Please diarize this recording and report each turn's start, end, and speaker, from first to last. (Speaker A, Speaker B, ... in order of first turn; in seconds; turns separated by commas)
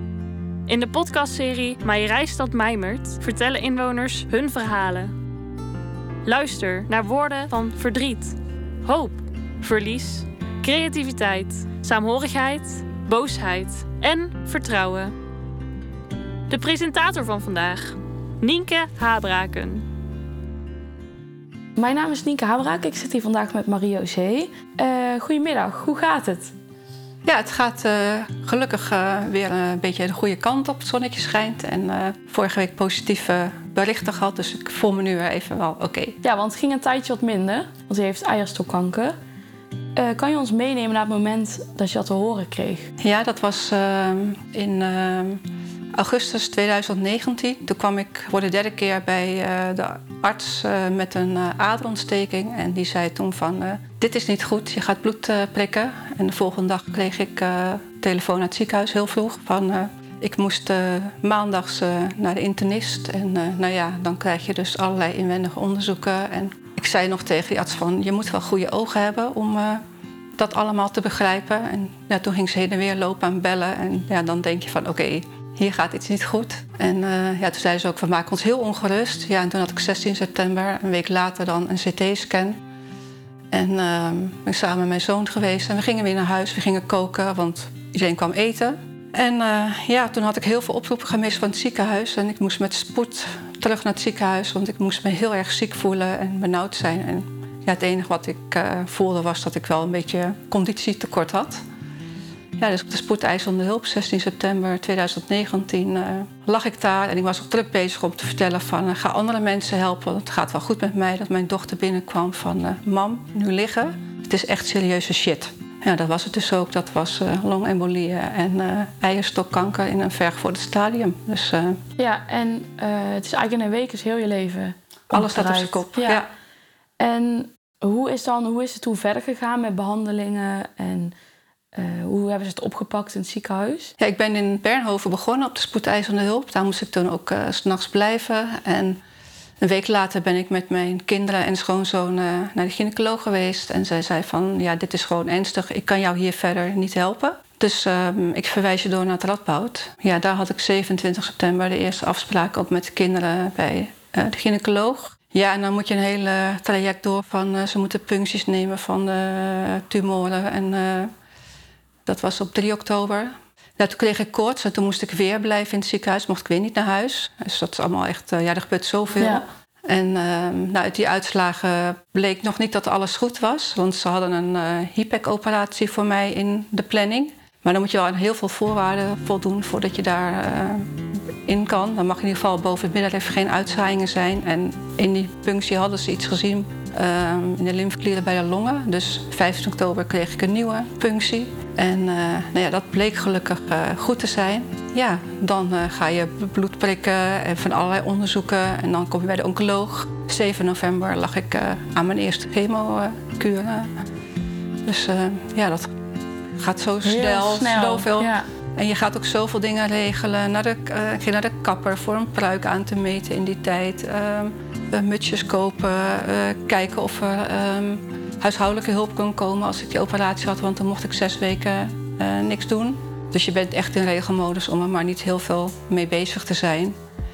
Speaker A: 0.7-5.1, Speaker A: 6.2-15.1, Speaker A: 16.5-19.8, Speaker B: 21.8-26.5, Speaker C: 27.2-36.2, Speaker B: 36.2-39.1, Speaker B: 40.0-42.9, Speaker C: 43.0-69.8, Speaker C: 70.4-82.6, Speaker C: 83.5-101.6, Speaker C: 102.6-121.8, Speaker B: 122.0-126.2, Speaker C: 125.1-126.3, Speaker B: 127.0-131.1, Speaker B: 131.7-133.9, Speaker C: 134.0-139.0, Speaker C: 139.6-161.1, Speaker C: 162.1-204.0, Speaker B: 169.2-169.4, Speaker C: 204.8-205.9, Speaker C: 206.5-227.0, Speaker B: 207.0-208.5